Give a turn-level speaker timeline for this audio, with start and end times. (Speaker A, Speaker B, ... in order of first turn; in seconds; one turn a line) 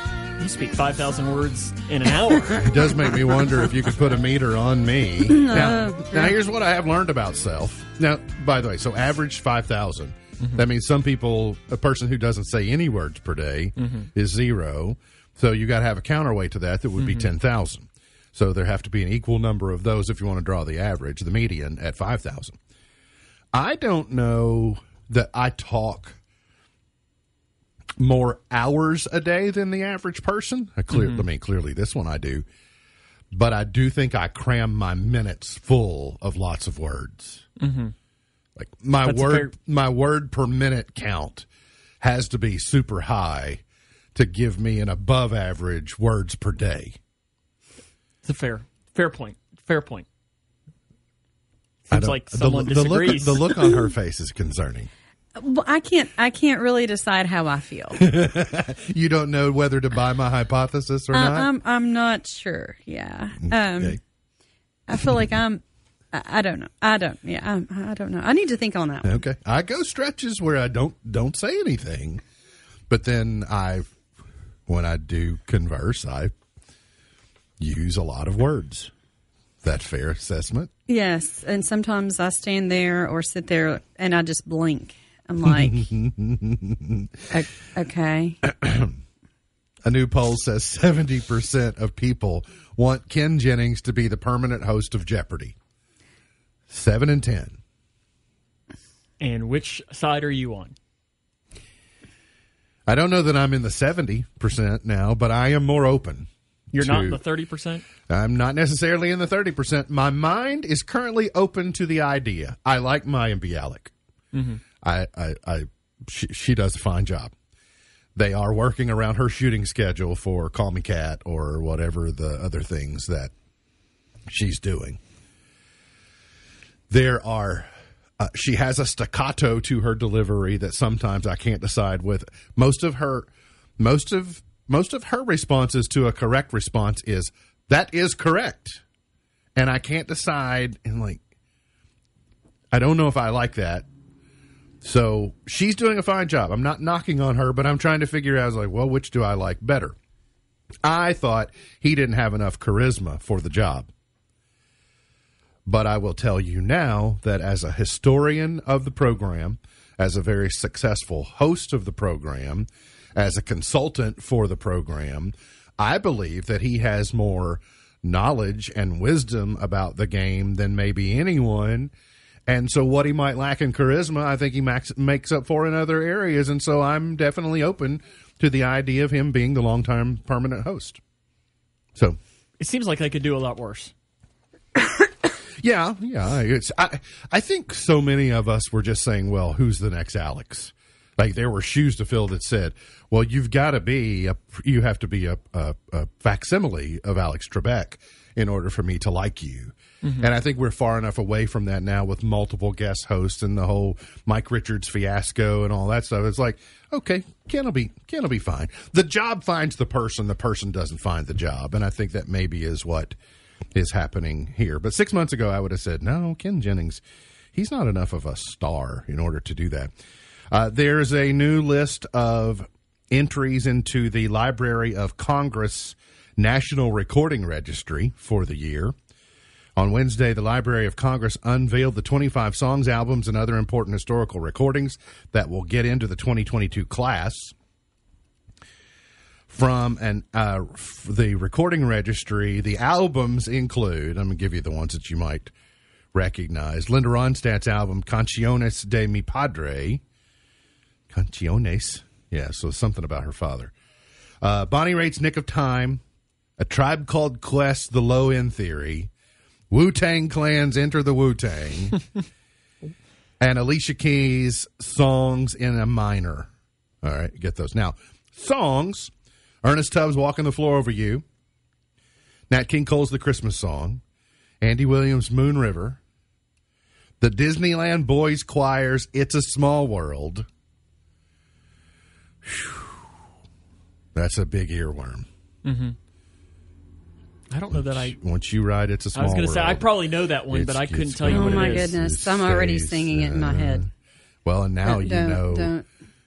Speaker A: 0.4-2.7
Speaker B: 2.5-22.6
Speaker C: 5.3-6.3
Speaker A: 13.8-14.1
Speaker A: 17.0-17.3
Speaker B: 23.5-26.2
Speaker B: 28.0-32.4
Speaker A: 30.9-31.2
Speaker B: 33.3-37.4
Speaker A: 37.6-37.9
Speaker B: 38.6-41.5
Speaker A: 39.0-39.5
Speaker B: 42.0-43.6
Speaker B: 44.1-47.0
Speaker A: 48.2-50.0
Speaker A: 51.9-53.7
Speaker B: 51.9-54.9
Speaker C: 55.4-58.0
Speaker B: 58.0-61.5
Speaker C: 61.1-64.0
Speaker B: 63.4-64.0
Speaker C: 64.9-69.1
Speaker B: 69.0-72.2
Speaker B: 72.9-73.9
Speaker B: 74.7-76.3
Speaker B: 77.6-78.9
Speaker B: 79.6-80.7
Speaker C: 80.9-85.9
Speaker B: 85.5-87.1
Speaker C: 87.3-88.4
Speaker B: 88.5-89.0
Speaker B: 89.8-95.5
Speaker B: 96.7-97.6
Speaker A: 99.2-100.7
Speaker B: 102.9-107.2
Speaker A: 106.7-107.8
Speaker B: 108.1-113.9
Speaker A: 114.3-114.6
Speaker B: 114.8-117.3
Speaker B: 118.2-123.3
Speaker B: 124.3-125.0
Speaker B: 126.9-133.3
Speaker B: 133.8-138.8
Speaker B: 139.6-141.2
Speaker B: 142.7-143.8
Speaker B: 144.8-149.9
Speaker B: 150.8-153.9
Speaker B: 155.7-171.9
Speaker B: 172.5-181.0
Speaker A: 182.6-183.9
Speaker B: 185.6-213.2
Speaker A: 200.0-200.3
Speaker B: 213.7-217.0
Speaker B: 217.5-219.9
Speaker B: 220.5-228.9
Speaker B: 229.8-237.5
Speaker B: 239.5-245.5
Speaker B: 246.1-250.0
Speaker B: 251.1-253.7
Speaker B: 254.4-256.0
Speaker B: 256.6-259.1
Speaker B: 259.7-262.0
Speaker B: 263.4-266.5
Speaker B: 267.0-269.1
Speaker B: 269.6-271.2
Speaker B: 272.5-274.0
Speaker B: 274.6-276.0
Speaker B: 277.2-280.5
Speaker B: 282.4-283.0
Speaker B: 284.1-285.3
Speaker A: 285.6-285.9
Speaker A: 287.5-288.2
Speaker B: 287.7-289.9
Speaker A: 289.1-291.9
Speaker B: 290.5-293.9
Speaker C: 291.3-293.9
Speaker B: 294.4-295.7
Speaker C: 294.8-295.9